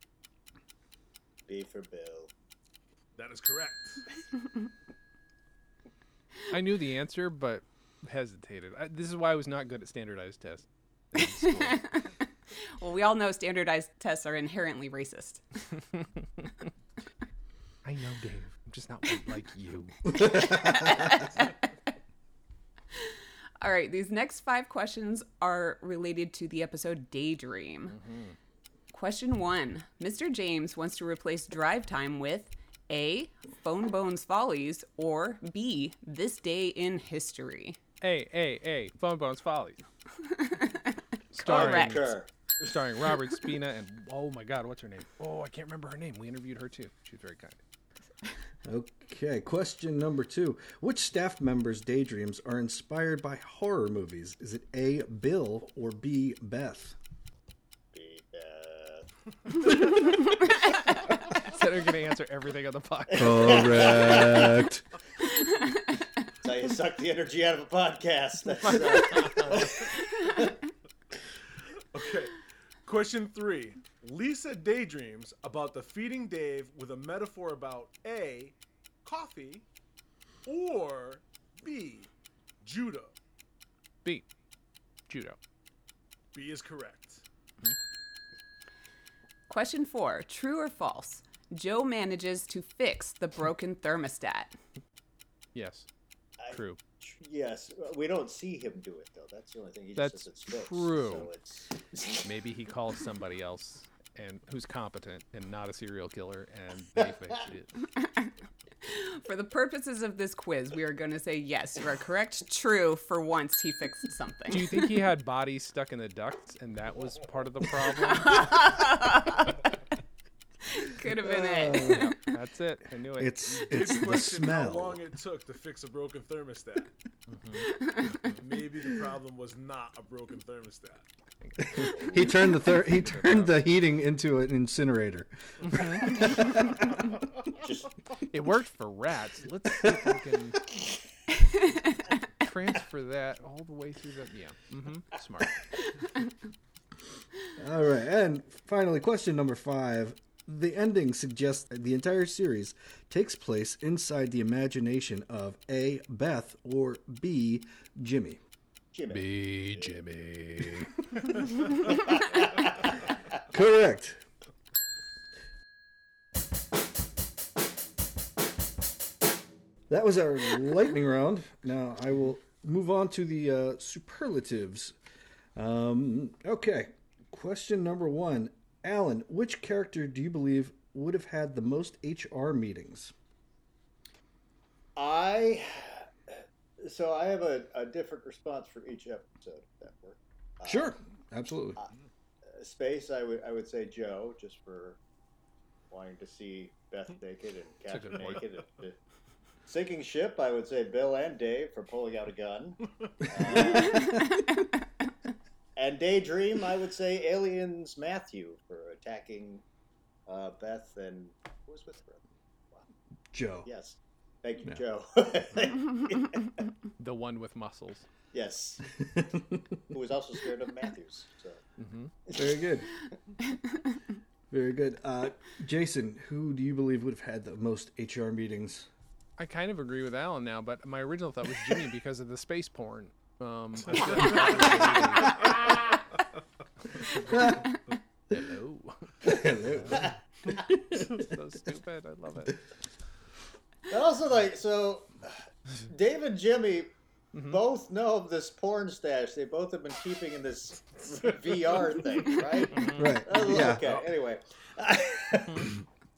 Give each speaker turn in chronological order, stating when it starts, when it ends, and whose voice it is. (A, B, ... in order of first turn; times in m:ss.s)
0:01.5-0:02.3 A
0:03.2-0:04.0 B
0:06.5-0:11.8 C
0:11.2-0:12.1 D
0:12.6-0:15.6 D
0:16.0-0:16.4 C
0:17.8-0:20.5 C
0:20.1-0:21.6 D
0:23.0-0:28.0 D
0:27.9-0:28.4 C
0:28.9-0:37.8 D
0:38.0-0:39.8 C
0:40.2-0:42.0 D
0:41.3-0:47.6 C
0:41.4-0:42.7 A
0:48.6-0:57.0 E
0:57.9-1:00.4 A
1:01.4-1:04.4 C
1:03.1-1:04.6 A
1:03.1-1:04.8 E
1:05.4-1:06.0 D
1:06.4-1:10.5 A
1:08.6-1:09.8 C
1:09.8-1:10.5 D
1:11.9-1:19.6 B
1:20.4-1:22.1 B
1:22.6-1:23.1 B
1:25.1-1:25.4 C
1:26.3-1:27.2 B
1:29.5-1:34.5 D
1:35.5-1:35.8 C
1:36.4-1:42.2 A
1:36.5-1:36.8 C
1:40.0-1:41.3 C
1:42.2-1:47.7 C
1:48.0-1:48.3 D
1:48.8-1:54.9 D
1:54.5-1:58.7 C
1:58.0-1:59.6 D
2:00.7-2:02.3 D
2:01.2-2:02.1 E
2:02.2-2:03.5 C
2:03.2-2:05.0 E
2:03.6-2:06.9 B
2:07.3-2:07.7 C
2:08.1-2:11.0 B
2:11.4-2:13.5 C
2:11.6-2:16.8 E
2:15.6-2:16.2 C
2:17.5-2:17.9 A
2:18.3-2:20.7 C
2:22.4-2:25.7 C
2:27.6-2:38.4 E
2:38.9-2:39.9 A
2:39.1-2:41.0 C
2:41.8-2:42.7 A
2:43.5-2:44.2 E
2:49.9-2:55.0 E
2:55.5-3:03.1 E
3:05.0-3:10.9 A
3:10.6-3:11.8 E
3:12.5-3:15.0 A
3:15.9-3:19.0 A
3:17.9-3:18.4 C
3:19.7-3:24.2 A
3:23.9-3:24.4 D
3:25.8-3:29.6 A
3:30.3-3:32.8 A
3:33.3-3:33.7 E
3:33.6-3:36.6 A
3:37.0-3:38.0 C
3:38.3-3:38.8 A
3:39.0-3:39.8 E
3:39.9-3:41.6 A
3:41.8-3:42.1 C
3:42.2-3:42.5 A
3:42.3-3:42.9 E
3:44.5-3:48.9 E
3:49.4-3:55.8 C
3:53.9-3:54.6 B
3:55.3-3:55.9 A
3:57.1-3:57.4 C
3:57.1-3:57.7 E
3:58.3-4:02.6 C
3:59.2-4:01.3 E
4:03.9-4:05.2 A
4:05.9-4:06.9 A
4:07.3-4:07.6 C
4:07.4-4:15.8 A
4:12.7-4:13.2 C
4:12.9-4:13.9 E